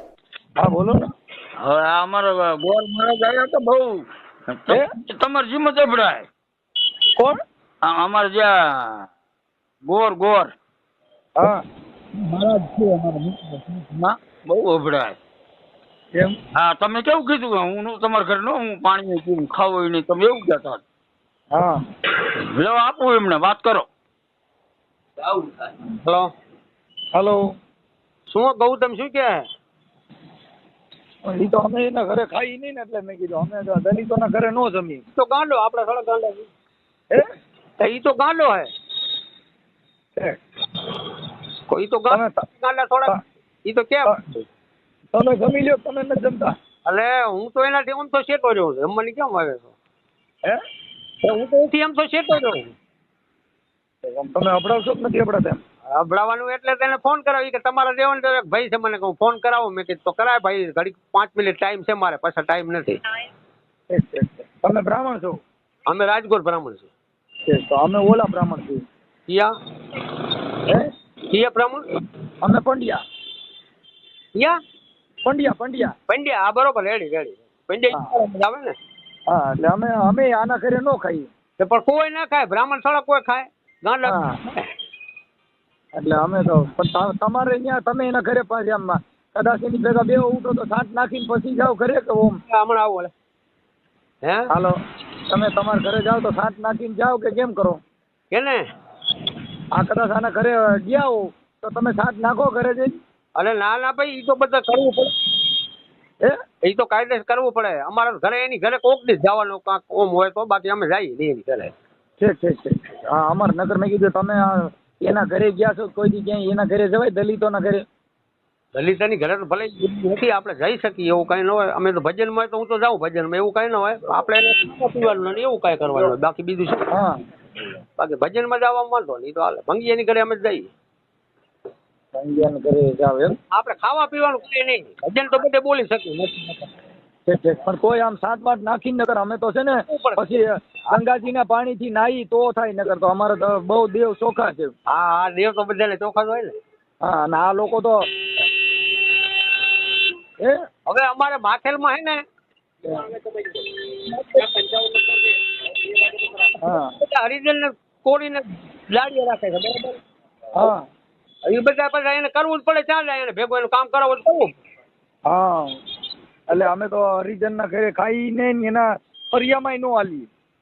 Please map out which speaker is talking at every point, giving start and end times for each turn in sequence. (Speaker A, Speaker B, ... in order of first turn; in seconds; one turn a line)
Speaker A: 0.6-1.1
Speaker B: 1.6-6.3
Speaker B: 7.8-9.1
Speaker B: 9.8-10.5
Speaker B: 12.2-15.2
Speaker B: 16.6-20.8
Speaker A: 21.5-21.8
Speaker B: 22.2-23.9
Speaker C: 26.0-26.3
Speaker A: 27.1-27.4
Speaker C: 28.3-29.4
Speaker A: 31.3-35.0
Speaker C: 35.1-36.5
Speaker C: 37.8-38.7
Speaker C: 41.7-44.5
Speaker A: 42.1-42.4
Speaker A: 45.1-46.5
Speaker C: 46.8-49.7
Speaker C: 51.2-52.7
Speaker A: 54.1-55.6
Speaker C: 55.9-63.0
Speaker A: 63.9-65.4
Speaker C: 65.9-66.9
Speaker A: 67.5-68.8
Speaker C: 69.3-69.5
Speaker C: 71.3-71.8
Speaker A: 72.4-73.0
Speaker A: 75.2-75.9
Speaker C: 76.1-78.8
Speaker A: 79.3-81.3
Speaker C: 81.6-84.6
Speaker A: 84.0-84.4
Speaker A: 86.0-92.4
Speaker C: 92.5-93.1
Speaker A: 94.5-97.8
Speaker C: 98.3-98.6
Speaker A: 99.7-103.0
Speaker C: 103.3-105.1
Speaker C: 106.6-111.7
Speaker A: 112.2-117.8
Speaker C: 118.7-126.9
Speaker C: 128.0-130.7
Speaker A: 132.1-133.3
Speaker C: 133.5-136.7
Speaker A: 137.2-144.7
Speaker C: 139.9-140.4
Speaker C: 144.9-146.6
Speaker A: 147.0-148.0
Speaker C: 150.9-152.2
Speaker C: 153.5-155.3
Speaker C: 155.9-160.0
Speaker A: 156.6-156.9
Speaker C: 161.5-164.6
Speaker A: 165.3-165.8
Speaker A: 166.5-170.3